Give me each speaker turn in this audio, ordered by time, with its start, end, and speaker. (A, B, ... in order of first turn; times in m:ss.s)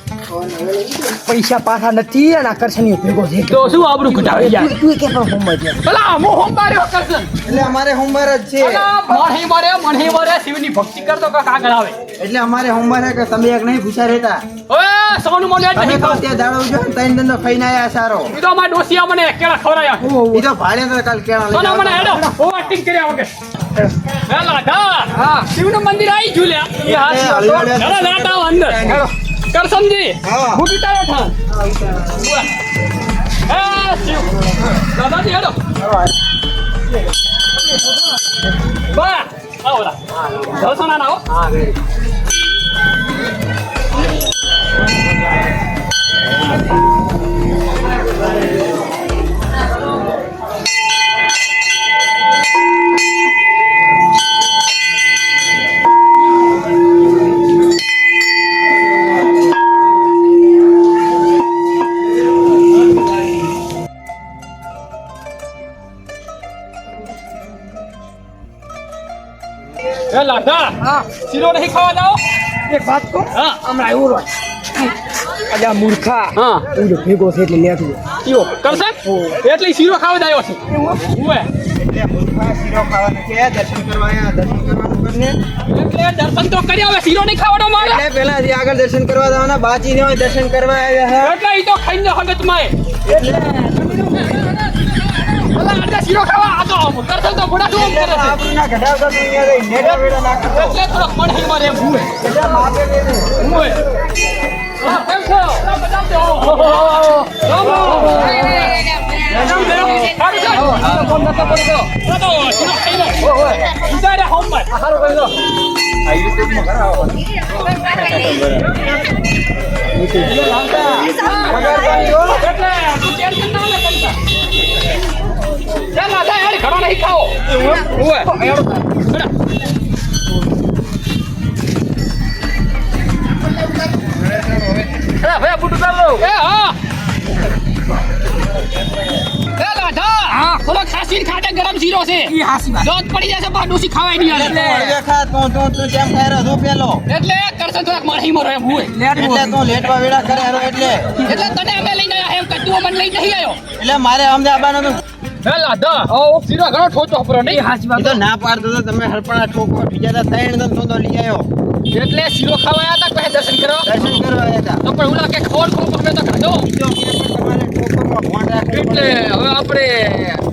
0:00.3-0:05.8 A
0:03.5-0:04.7 B
0:05.8-0:07.3 B
0:07.4-0:08.9 C
0:08.6-0:12.0 B
0:08.8-0:09.2 A
0:12.2-0:14.4 C
0:14.7-0:16.2 B
0:15.7-0:18.3 C
0:18.3-0:20.2 B
0:20.0-0:20.4 A
0:20.3-0:22.2 C
0:21.5-0:23.3 B
0:24.3-0:29.0 B
0:25.1-0:25.5 A
0:26.8-0:29.0 C
0:29.5-0:31.3 B
0:30.2-0:30.6 C
0:32.0-0:32.5 B
0:33.5-0:35.6 B
0:38.9-0:41.4 B
1:10.1-1:12.2 B
1:10.8-1:11.1 A
1:12.7-1:14.3 A
1:13.3-1:13.6 B
1:15.5-1:18.0 A
1:16.3-1:16.7 B
1:18.2-1:21.5 B
1:18.8-1:19.4 A
1:20.7-1:21.1 A
1:21.8-1:25.4 C
1:25.7-1:28.0 B
1:27.8-1:31.3 C
1:31.2-1:32.8 B
1:33.1-1:33.9 C
1:33.6-1:34.4 A
1:34.1-1:38.4 B
1:37.7-1:40.8 C
1:40.5-1:42.1 B
1:42.2-1:43.4 C
1:43.4-1:43.8 B
1:44.8-1:54.8 B
1:47.5-1:48.7 A
1:49.3-1:51.8 A
1:53.2-1:53.7 A
1:54.8-1:55.3 A
1:56.1-1:57.1 C
1:58.1-1:58.4 B
1:59.9-2:02.2 A
2:00.7-2:04.2 B
2:01.4-2:02.4 C
2:05.9-2:08.3 B
2:07.5-2:08.9 A
2:15.0-2:16.8 B
2:19.5-2:24.7 B
2:20.3-2:20.6 A
2:22.3-2:22.9 A
2:24.2-2:27.0 C
2:24.4-2:25.0 A
2:27.1-2:28.9 B
2:28.9-2:29.6 A
2:29.1-2:31.2 C
2:31.2-2:33.6 B
2:33.8-2:35.0 C
2:35.4-2:37.6 B
2:37.4-2:38.2 A
2:38.0-2:41.5 C
2:41.9-2:44.2 B
2:43.8-2:44.8 C
2:44.8-2:46.7 B
2:46.6-2:49.3 C
2:48.7-2:50.4 B